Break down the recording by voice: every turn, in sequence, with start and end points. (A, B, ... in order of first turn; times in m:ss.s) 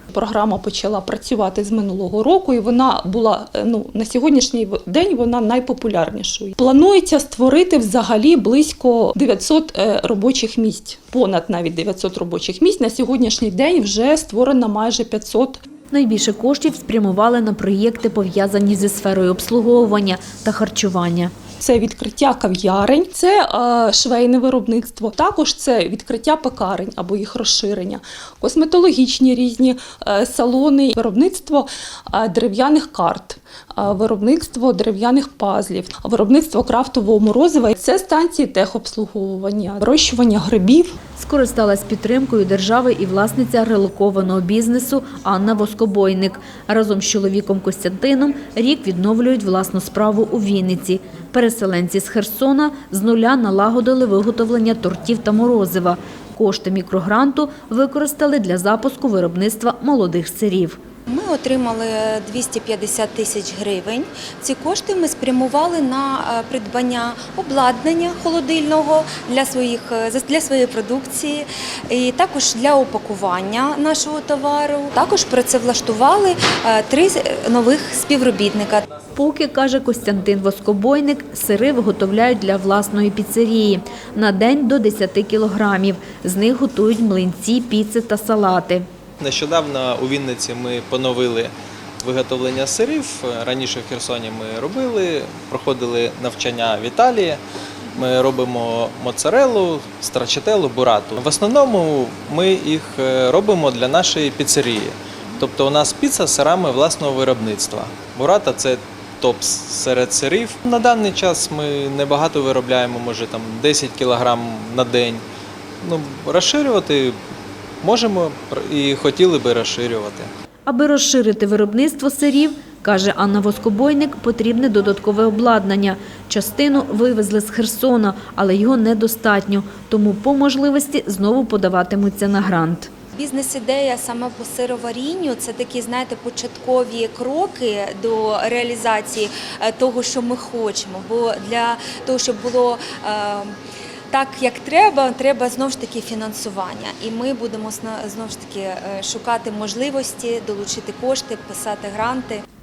0:00.1-0:15.6 A
0:15.9-0:21.3 B
0:21.6-0:41.0 A
0:41.2-1:00.8 B
1:01.1-1:18.8 C
1:19.2-1:28.8 B
1:29.2-1:37.4 D
1:37.9-1:55.2 D
1:55.8-1:57.2 D
1:57.8-2:00.3 D
2:00.7-2:12.9 B
2:13.2-2:23.5 C
2:24.1-2:32.4 C